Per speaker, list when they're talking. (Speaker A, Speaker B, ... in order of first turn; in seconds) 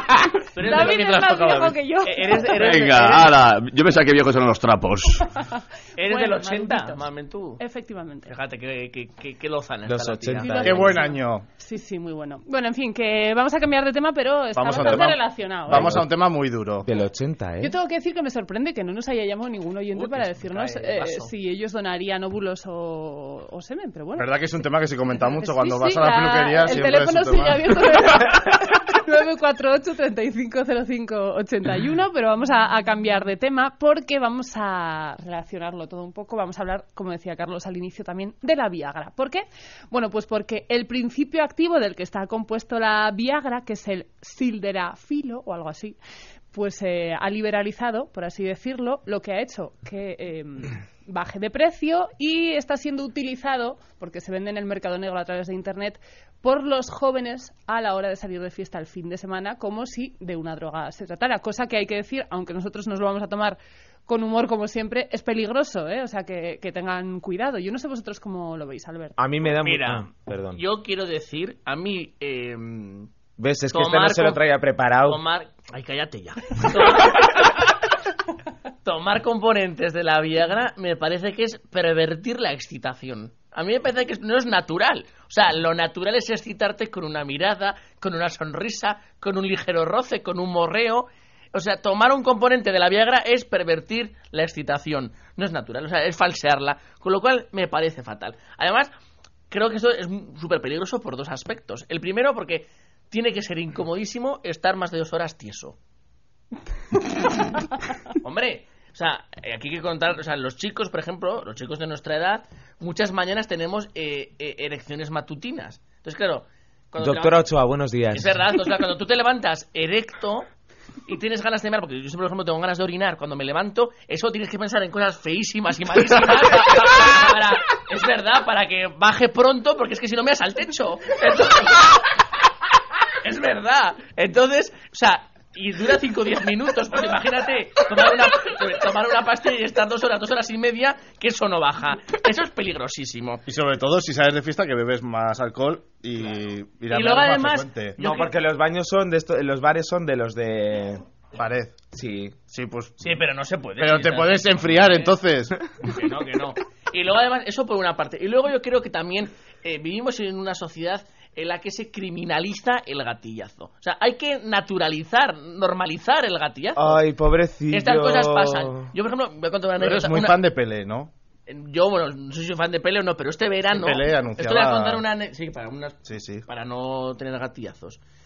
Speaker A: 0.5-3.3, 6.0-7.6, 8.3-10.8, 19.9-21.3, 69.6-73.1, 73.7-74.4, 75.0-77.7, 78.8-98.9, 99.5-105.8, 108.1-117.4, 118.1-120.5, 121.0-132.2, 133.2-143.4, 146.9-148.3, 153.0-155.2, 155.8-167.0, 167.7-170.4, 171.5-178.0
Speaker B: 0.6-2.5, 5.4-7.0, 7.6-8.3, 10.4-16.0, 17.6-24.3, 25.2-46.0, 46.5-69.2
Speaker C: 2.5-5.3
Speaker D: 9.9-10.9, 15.7-16.1, 16.8-17.7, 69.2-70.6, 73.4-75.2, 117.0-118.4, 148.0-151.0, 151.9-152.3, 166.7-168.9
Speaker E: 10.6-11.4, 14.5-16.9, 24.2-27.8, 143.5-147.9, 151.3-151.8, 152.5-152.9, 153.8-155.6, 169.8-171.1, 173.7-175.0, 176.1-176.4